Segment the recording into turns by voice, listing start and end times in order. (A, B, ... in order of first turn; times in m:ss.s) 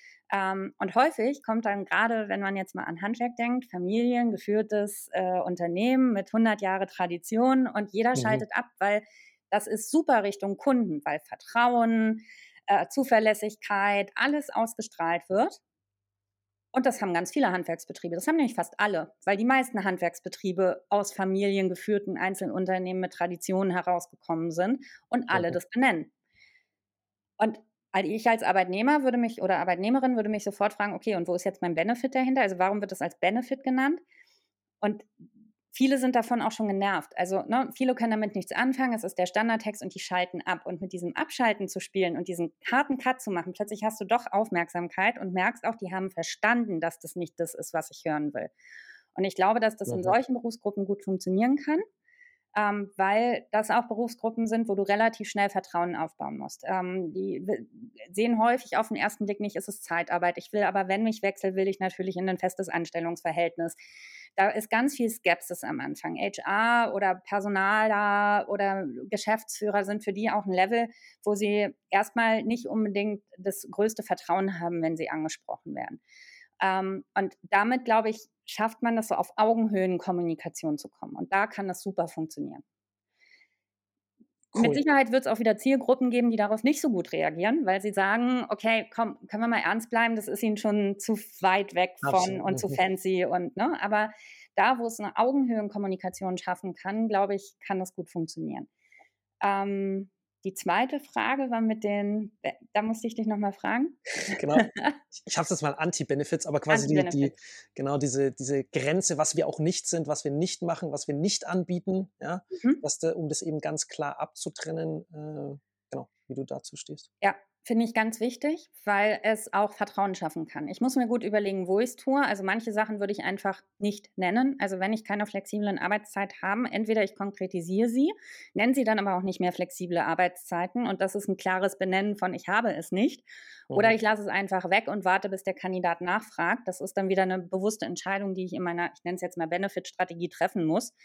0:00.3-0:15.6 A
0:08.1-0:08.4 B
0:16.7-0:26.1 A
0:27.4-0:34.0 A
0:34.8-0:48.5 A
0:49.1-0:51.8 A
0:49.9-0:50.2 B
0:52.5-1:03.8 A
1:04.4-1:16.0 A
1:16.6-1:22.6 A
1:24.5-1:24.8 B
1:24.5-1:38.7 A
1:32.0-1:32.8 B
1:39.4-1:45.0 A
1:44.3-1:57.1 B
1:46.7-1:47.3 A
1:52.5-1:52.8 A
1:57.2-2:20.9 A
2:13.7-2:14.0 B